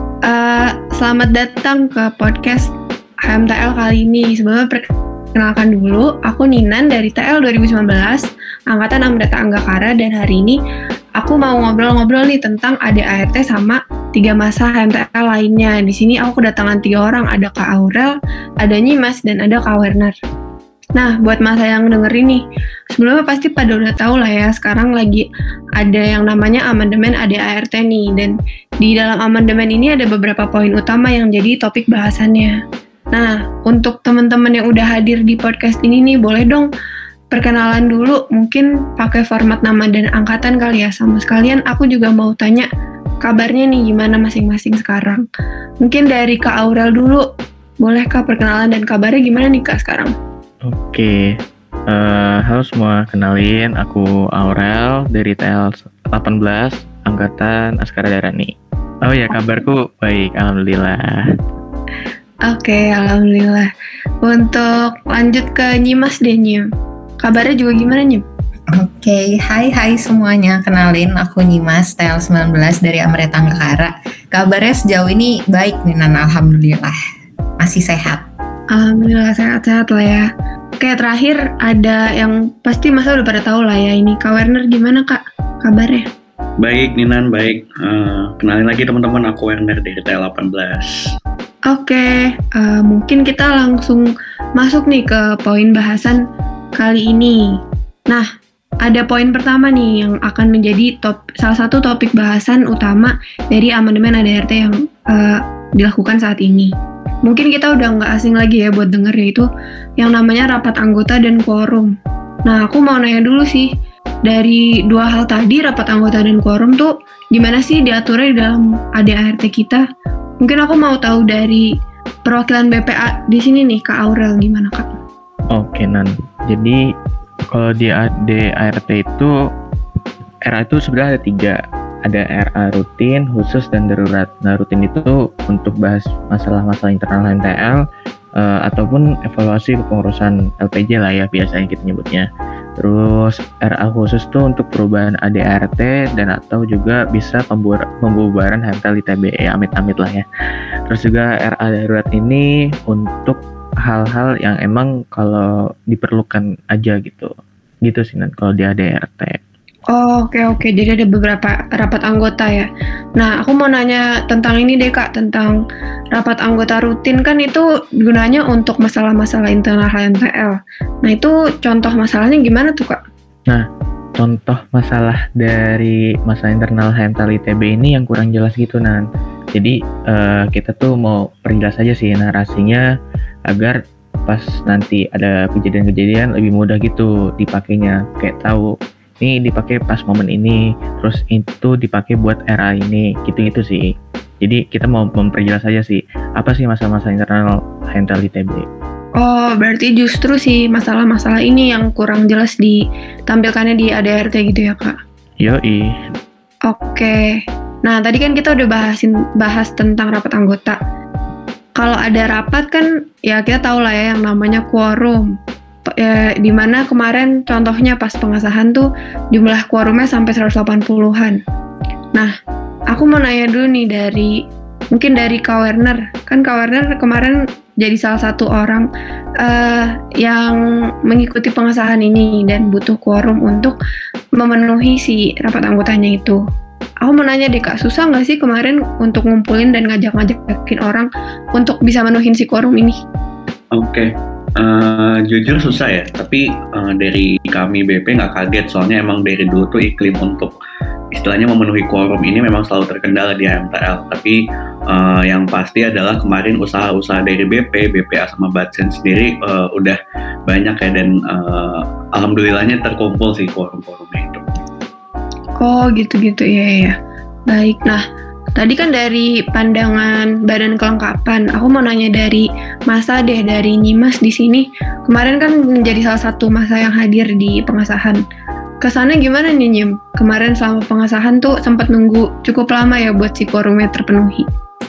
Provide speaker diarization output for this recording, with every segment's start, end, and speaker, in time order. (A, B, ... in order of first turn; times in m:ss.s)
0:00.2-0:02.7 A
0:03.2-0:10.6 A
0:11.2-0:20.1 A
0:21.0-0:25.2 A
0:25.8-0:32.6 A
0:33.1-0:36.7 A
0:37.3-0:42.6 A
0:43.2-0:45.2 A
0:45.8-0:47.2 A
0:47.8-0:50.1 A
0:50.6-0:51.4 B
0:51.9-1:01.2 B
1:02.5-1:03.7 A
1:04.2-1:06.7 A
1:07.2-1:08.2 A
1:08.8-1:16.9 C
1:17.6-1:18.2 C
1:18.7-1:20.2 A
1:20.8-1:26.0 A
1:26.6-1:30.9 D
1:31.7-1:36.2 A
1:36.8-1:37.4 A
1:38.8-1:46.7 A
1:47.2-1:49.4 A
1:50.0-1:51.9 A
1:52.4-1:53.7 A
1:54.2-1:59.8 A
2:00.4-2:01.6 A
2:02.2-2:04.9 A
2:05.5-2:06.8 B
2:07.5-2:09.3 B
2:10.4-2:17.8 B
2:18.4-2:30.2 B
2:30.9-2:37.3 B
2:37.8-2:39.4 B
2:39.9-2:45.6 A
2:46.1-2:53.0 A
2:54.2-2:59.0 B
2:59.5-3:02.8 B
3:03.5-3:13.9 B
3:14.4-3:18.6 B
3:19.2-3:25.0 A
3:25.4-3:26.0 B
3:26.6-3:27.2 A
3:27.8-3:30.8 A
3:31.8-3:35.3 A
3:35.9-3:41.4 A
3:42.9-3:44.3 A
3:44.9-3:48.8 A
3:49.4-3:53.7 A
3:54.4-3:56.4 A
3:57.0-4:02.9 A
4:03.7-4:10.5 D
4:11.1-4:24.4 D
4:25.6-4:27.0 A
4:27.5-4:28.0 A
4:28.6-4:38.2 A
4:38.8-4:44.5 A